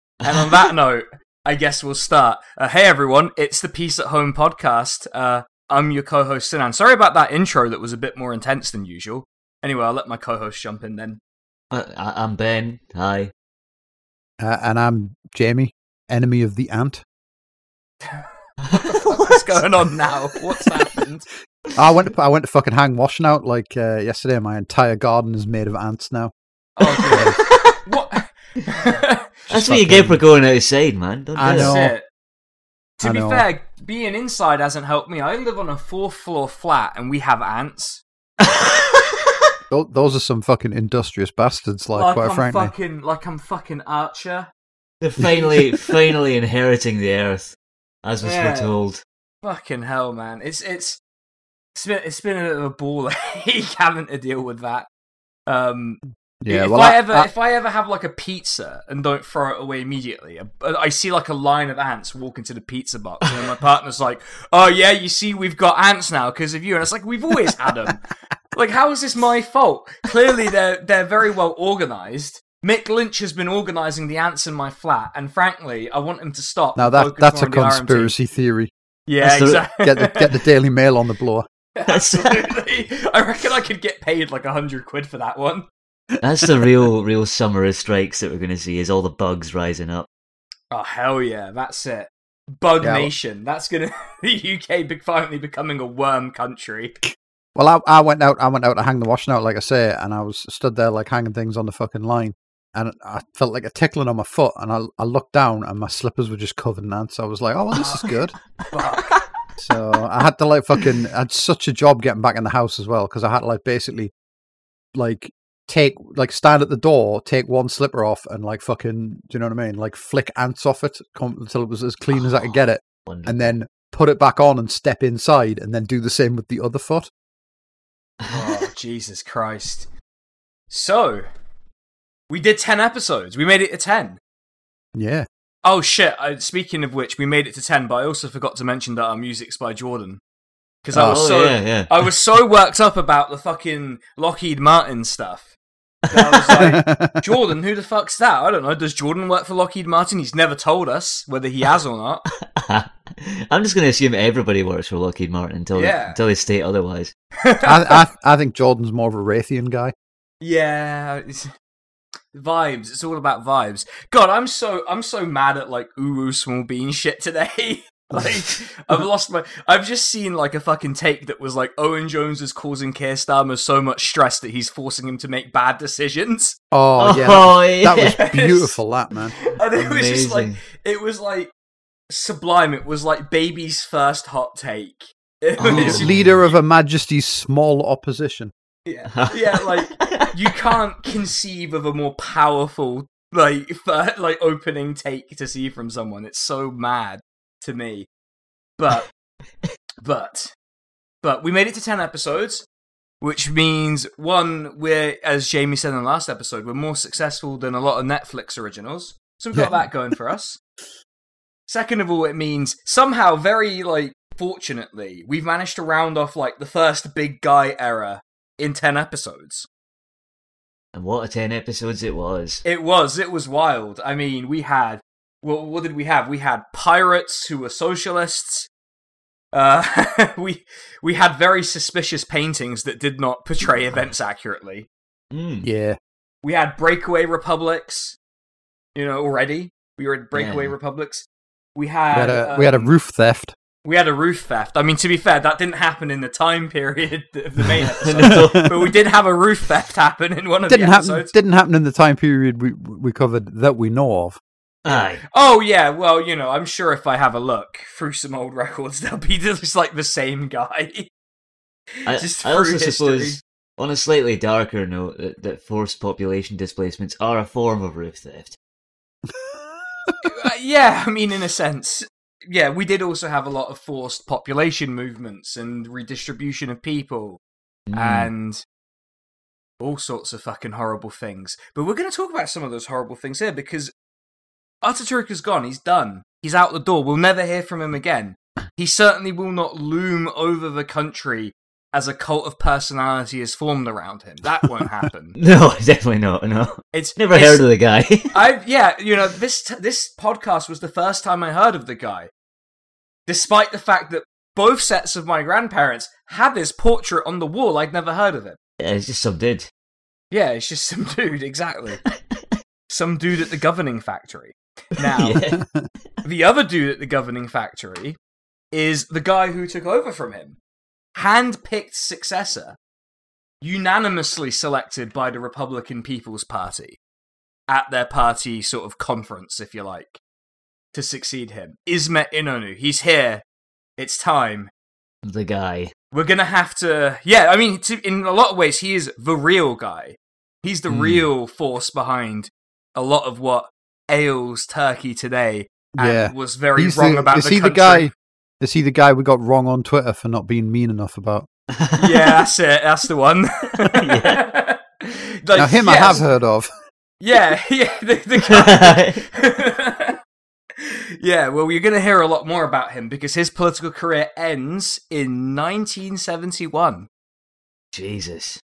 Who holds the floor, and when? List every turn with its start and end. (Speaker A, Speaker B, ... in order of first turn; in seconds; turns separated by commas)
Speaker A: 0.2-11.2, Speaker B: 0.3-0.7, Speaker B: 11.7-13.3, Speaker C: 14.4-17.0, Speaker A: 18.0-21.3, Speaker B: 18.7-20.1, Speaker C: 21.8-26.3, Speaker A: 26.8-29.3, Speaker B: 27.0-27.8, Speaker C: 27.1-27.4, Speaker C: 29.5-30.2, Speaker B: 29.5-31.8, Speaker C: 31.4-31.9, Speaker A: 31.5-32.0, Speaker A: 33.0-38.0, Speaker C: 33.0-33.5, Speaker B: 38.4-39.2, Speaker C: 39.7-42.7, Speaker A: 41.9-44.5, Speaker B: 45.0-49.0, Speaker C: 45.2-45.6, Speaker A: 48.2-48.7, Speaker A: 49.4-51.0, Speaker A: 51.8-54.9, Speaker A: 55.5-78.1, Speaker C: 56.4-57.3, Speaker C: 76.8-78.7, Speaker A: 79.1-80.3, Speaker B: 79.2-79.6, Speaker C: 79.8-81.5, Speaker A: 81.8-85.7, Speaker B: 81.9-82.6, Speaker B: 86.2-90.1, Speaker A: 90.7-97.0, Speaker C: 92.8-93.1, Speaker C: 97.5-108.3, Speaker A: 107.8-108.2, Speaker A: 108.7-109.2, Speaker C: 109.6-114.1, Speaker C: 115.0-127.1, Speaker B: 122.1-122.5, Speaker B: 123.1-123.5, Speaker B: 128.3-128.6, Speaker A: 128.3-129.9, Speaker A: 130.7-131.3, Speaker A: 132.3-134.2, Speaker C: 134.9-135.3, Speaker A: 135.7-140.2, Speaker A: 140.8-145.5, Speaker C: 140.9-141.2, Speaker B: 141.0-142.1, Speaker A: 146.1-152.2, Speaker B: 146.1-146.6, Speaker C: 146.6-147.2, Speaker B: 152.6-157.1, Speaker A: 155.7-156.2, Speaker A: 157.4-158.1, Speaker C: 157.7-159.9, Speaker A: 160.4-161.5, Speaker A: 162.3-176.6, Speaker C: 176.7-179.3, Speaker B: 177.0-178.2, Speaker A: 178.0-178.7, Speaker A: 179.4-181.5, Speaker B: 179.7-180.6, Speaker A: 182.1-186.1, Speaker B: 185.6-186.4, Speaker C: 185.7-188.5, Speaker A: 188.9-198.1, Speaker B: 189.1-190.3, Speaker A: 198.8-199.1, Speaker A: 200.0-200.5, Speaker A: 201.2-202.7, Speaker A: 203.2-210.6, Speaker C: 209.5-209.8, Speaker A: 211.7-219.7, Speaker B: 220.9-222.6, Speaker A: 222.6-228.7, Speaker A: 229.5-234.9, Speaker B: 235.3-235.7, Speaker C: 235.6-236.0, Speaker A: 236.4-238.2, Speaker A: 238.9-241.2, Speaker B: 240.3-240.7, Speaker A: 241.8-242.9, Speaker C: 242.1-243.5, Speaker A: 243.8-251.3, Speaker B: 248.0-248.9, Speaker C: 248.2-248.8, Speaker C: 250.7-254.4, Speaker B: 254.8-255.2, Speaker A: 254.9-261.1, Speaker A: 262.0-263.4, Speaker B: 262.1-268.6, Speaker A: 270.2-277.4, Speaker B: 277.9-278.3, Speaker A: 277.9-278.6, Speaker A: 279.8-283.9, Speaker A: 284.8-295.4, Speaker B: 295.4-298.3, Speaker A: 296.9-297.6, Speaker A: 298.3-302.3, Speaker A: 303.3-308.6, Speaker B: 308.8-309.7, Speaker A: 310.3-312.0, Speaker A: 312.9-315.4, Speaker B: 315.0-315.6, Speaker C: 315.6-315.9, Speaker A: 316.2-318.2, Speaker A: 318.7-320.6, Speaker A: 321.1-322.8, Speaker A: 323.6-327.0, Speaker A: 327.7-330.2, Speaker A: 330.9-333.4, Speaker A: 334.0-334.7, Speaker B: 335.2-335.9, Speaker A: 336.1-348.1, Speaker B: 340.9-341.2, Speaker C: 346.0-351.5, Speaker B: 351.7-352.4, Speaker A: 352.0-356.2, Speaker B: 354.0-354.4, Speaker C: 355.6-356.7, Speaker A: 357.2-360.2, Speaker B: 358.4-359.2, Speaker A: 360.8-367.1, Speaker B: 367.9-368.6